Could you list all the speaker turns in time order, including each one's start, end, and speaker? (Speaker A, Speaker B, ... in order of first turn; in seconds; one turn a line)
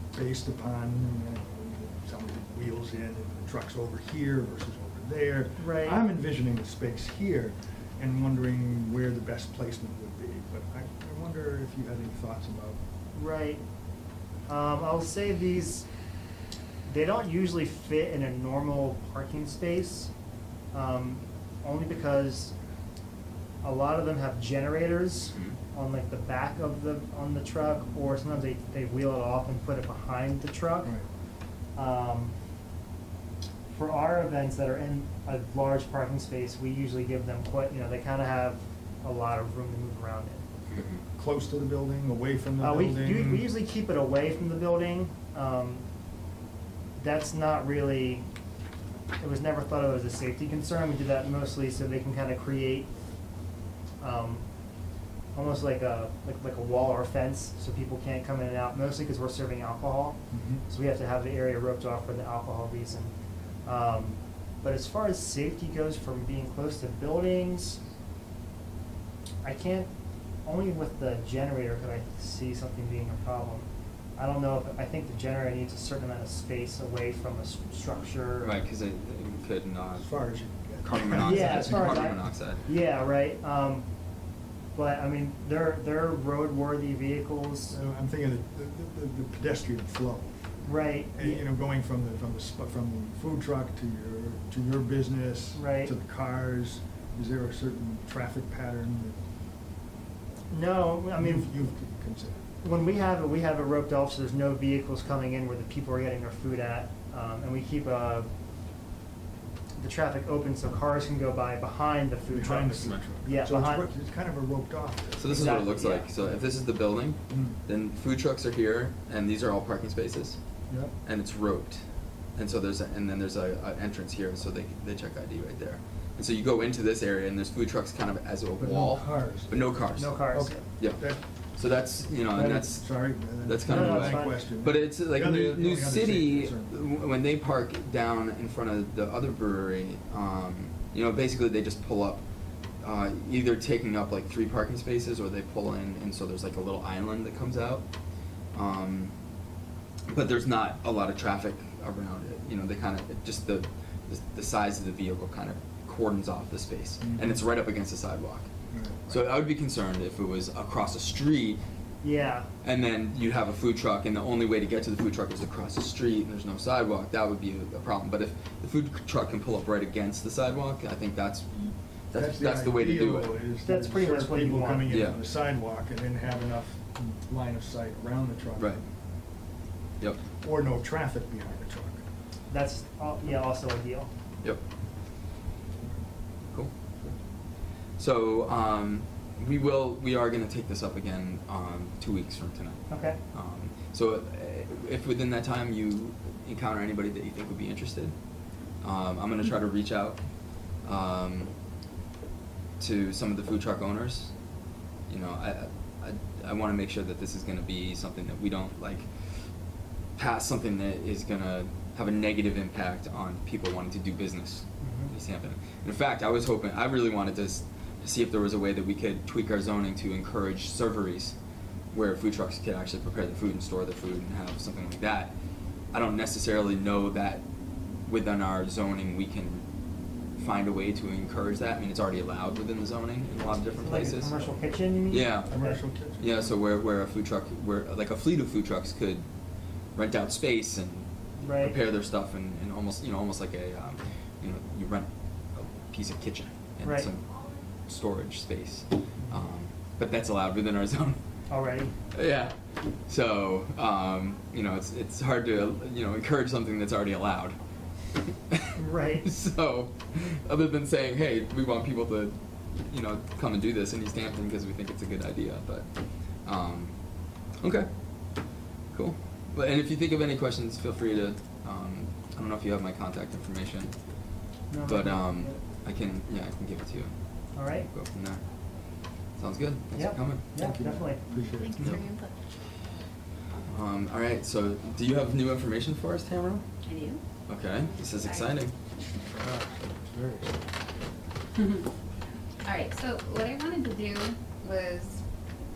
Speaker A: 0.1-12.8
Speaker B: 5.6-6.0
Speaker B: 13.1-13.6
Speaker B: 14.5-15.8
Speaker B: 16.9-20.1
Speaker B: 20.7-22.5
Speaker B: 23.6-30.9
Speaker C: 25.3-25.6
Speaker B: 31.8-32.3
Speaker B: 33.7-40.4
Speaker C: 40.7-41.0
Speaker A: 41.1-43.5
Speaker B: 42.6-45.8
Speaker B: 47.0-48.2
Speaker B: 49.2-52.9
Speaker B: 54.0-54.4
Speaker B: 55.3-63.1
Speaker A: 60.3-60.6
Speaker B: 63.6-67.8
Speaker B: 69.4-69.9
Speaker B: 70.4-78.5
Speaker C: 78.4-80.1
Speaker A: 80.0-82.1
Speaker C: 80.8-82.6
Speaker B: 81.2-83.9
Speaker B: 84.7-87.8
Speaker A: 87.7-90.5
Speaker B: 90.6-91.4
Speaker A: 91.1-99.2
Speaker B: 95.5-95.9
Speaker B: 100.5-101.5
Speaker A: 101.2-102.5
Speaker B: 102.6-108.3
Speaker B: 109.8-113.8
Speaker A: 112.3-115.6
Speaker C: 115.2-120.4
Speaker B: 115.2-116.1
Speaker A: 117.3-117.6
Speaker C: 121.0-121.8
Speaker C: 122.3-131.0
Speaker A: 128.6-131.2
Speaker B: 129.9-130.6
Speaker C: 131.6-142.2
Speaker A: 132.3-136.9
Speaker B: 133.6-134.4
Speaker C: 142.8-147.8
Speaker C: 148.5-149.1
Speaker C: 150.1-158.5
Speaker A: 157.0-157.4
Speaker A: 158.7-159.1
Speaker C: 159.1-161.6
Speaker B: 162.0-162.5
Speaker C: 162.6-173.4
Speaker A: 172.1-178.9
Speaker B: 173.6-174.9
Speaker C: 174.9-175.2
Speaker A: 180.4-182.0
Speaker B: 182.5-184.1
Speaker C: 188.0-198.1
Speaker B: 192.9-193.2
Speaker C: 198.8-200.2
Speaker C: 200.8-201.5
Speaker C: 202.8-204.3
Speaker C: 205.1-209.1
Speaker C: 210.2-221.3
Speaker B: 214.8-215.1
Speaker C: 221.9-225.3
Speaker C: 225.9-227.4
Speaker C: 228.1-229.6
Speaker C: 230.4-234.3
Speaker B: 233.8-235.8
Speaker C: 235.1-235.5
Speaker A: 235.5-236.4
Speaker C: 236.2-239.2
Speaker C: 239.9-247.2
Speaker B: 241.4-241.8
Speaker C: 247.8-251.2
Speaker B: 251.5-251.9
Speaker C: 252.1-257.6
Speaker C: 258.1-258.7
Speaker B: 258.7-259.3
Speaker C: 259.2-265.9
Speaker C: 266.4-266.9
Speaker C: 267.6-267.9
Speaker C: 268.9-273.9
Speaker B: 274.7-275.5
Speaker C: 274.8-277.1
Speaker B: 277.5-277.9
Speaker C: 277.6-278.4
Speaker C: 279.4-280.4
Speaker B: 279.9-281.2
Speaker A: 280.6-282.0
Speaker D: 281.4-282.6
Speaker C: 283.7-286.6
Speaker D: 286.8-287.2
Speaker C: 287.5-288.7
Speaker D: 288.2-288.5
Speaker A: 289.4-290.6
Speaker D: 291.6-291.8
Speaker D: 292.6-295.2